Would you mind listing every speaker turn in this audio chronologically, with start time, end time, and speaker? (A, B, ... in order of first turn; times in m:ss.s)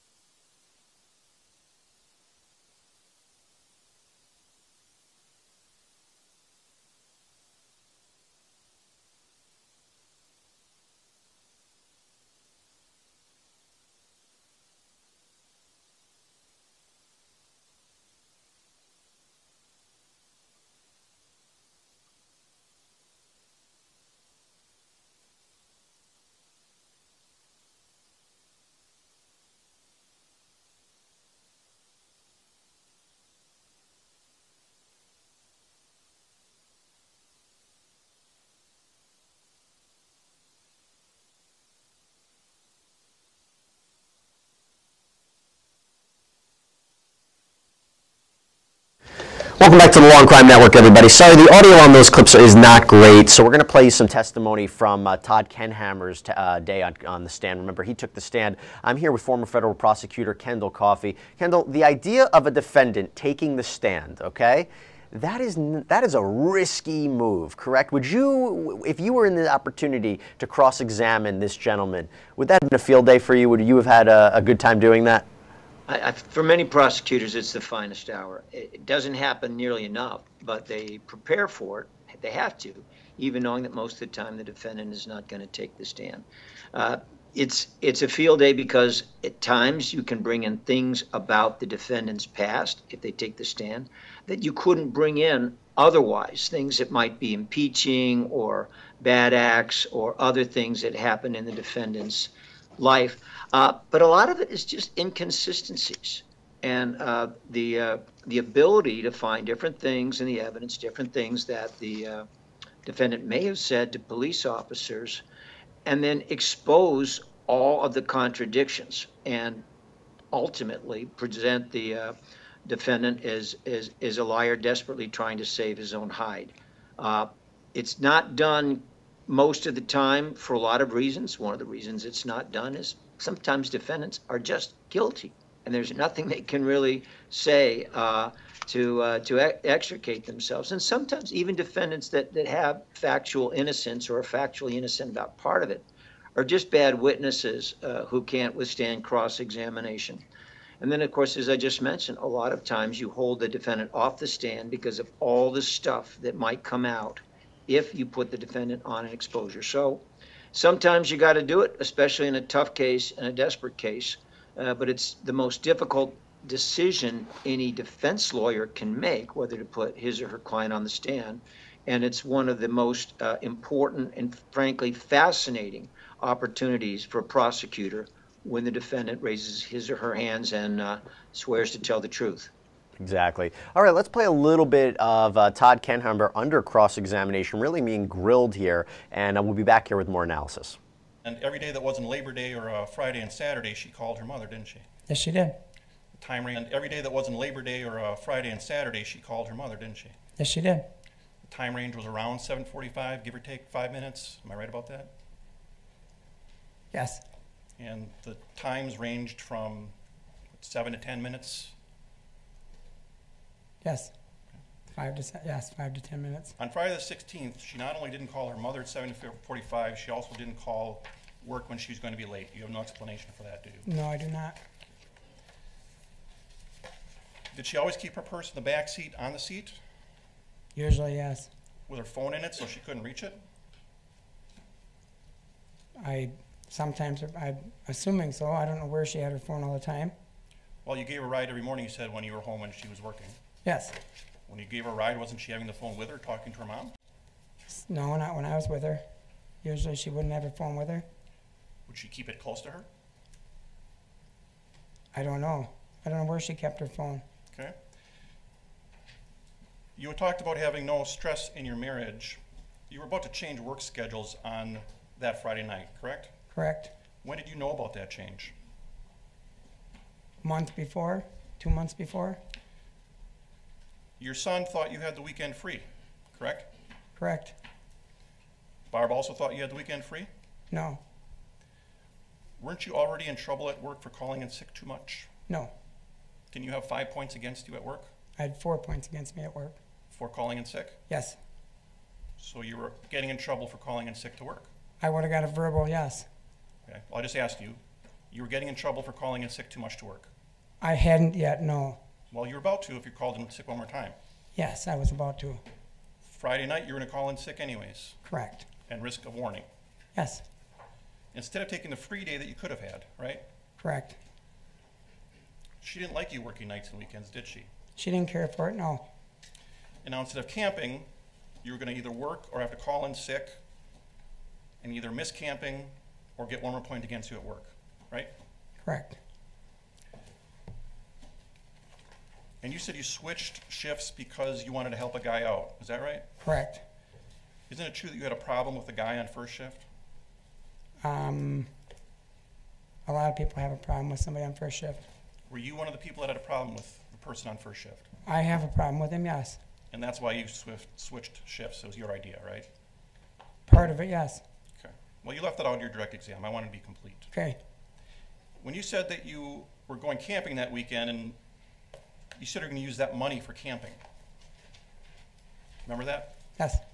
0:49.6-1:15.3 A
1:15.9-1:52.2 B
1:52.8-1:55.2 B
1:55.8-1:59.6 B
2:00.3-2:02.1 B
2:02.6-2:30.2 B
2:30.8-3:02.5 B
3:03.0-3:10.8 A
3:11.2-3:14.8 C
3:15.1-3:15.6 D
3:16.1-3:20.1 C
3:20.4-3:20.9 D
3:21.4-3:25.1 C
3:26.9-3:27.2 D
3:27.8-3:29.9 C
3:30.5-3:31.7 C
3:33.8-3:34.1 D
3:34.9-3:36.5 D
3:36.6-3:43.8 C
3:43.8-3:44.6 D
3:47.5-3:49.8 C
3:50.7-3:51.5 D
3:51.9-3:53.4 C
3:56.0-4:00.1 D
4:00.8-4:03.4 C
4:03.6-4:04.0 D
4:04.5-4:06.9 C
4:07.7-4:09.0 D
4:09.6-4:11.0 D
4:11.9-4:12.8 C
4:15.1-4:17.2 D
4:20.0-4:26.3 C
4:26.5-4:26.9 D
4:27.2-4:28.5 C
4:30.4-4:32.4 D
4:34.2-4:36.7 C
4:37.2-4:37.6 D
4:38.9-4:40.3 C
4:40.7-4:41.0 D
4:42.6-4:45.3 C
4:46.5-4:48.1 C
4:48.4-4:49.8 D
4:50.1-4:51.0 C
4:51.1-4:51.4 D
4:52.4-4:54.7 C
4:55.0-4:56.3 D
4:56.8-4:57.8 C
4:58.3-5:00.3 C
5:00.8-5:02.0 D
5:02.3-5:04.2 C
5:04.5-5:05.6 D
5:06.2-5:08.2 C
5:08.2-5:08.6 D
5:08.9-5:09.6 C
5:10.1-5:10.4 D
5:11.3-5:13.4 C
5:13.8-5:14.2 D
5:15.8-5:17.7 C
5:18.0-5:19.1 D
5:20.0-5:21.1 C
5:21.6-5:23.6 C
5:24.8-5:28.3 C
5:28.8-5:29.2 D
5:32.6-5:36.2 C
5:36.4-5:36.8 D
5:37.7-5:39.8 C
5:41.0-5:41.7 D
5:43.0-5:45.0 D
5:45.5-5:48.1 C
5:48.2-5:49.6 D
5:49.9-5:52.7 C
5:53.7-5:54.4 D
5:54.8-5:57.3 C
5:57.3-5:57.6 D
5:58.6-6:01.4 C
6:02.4-6:04.0 C
6:05.8-6:06.3 C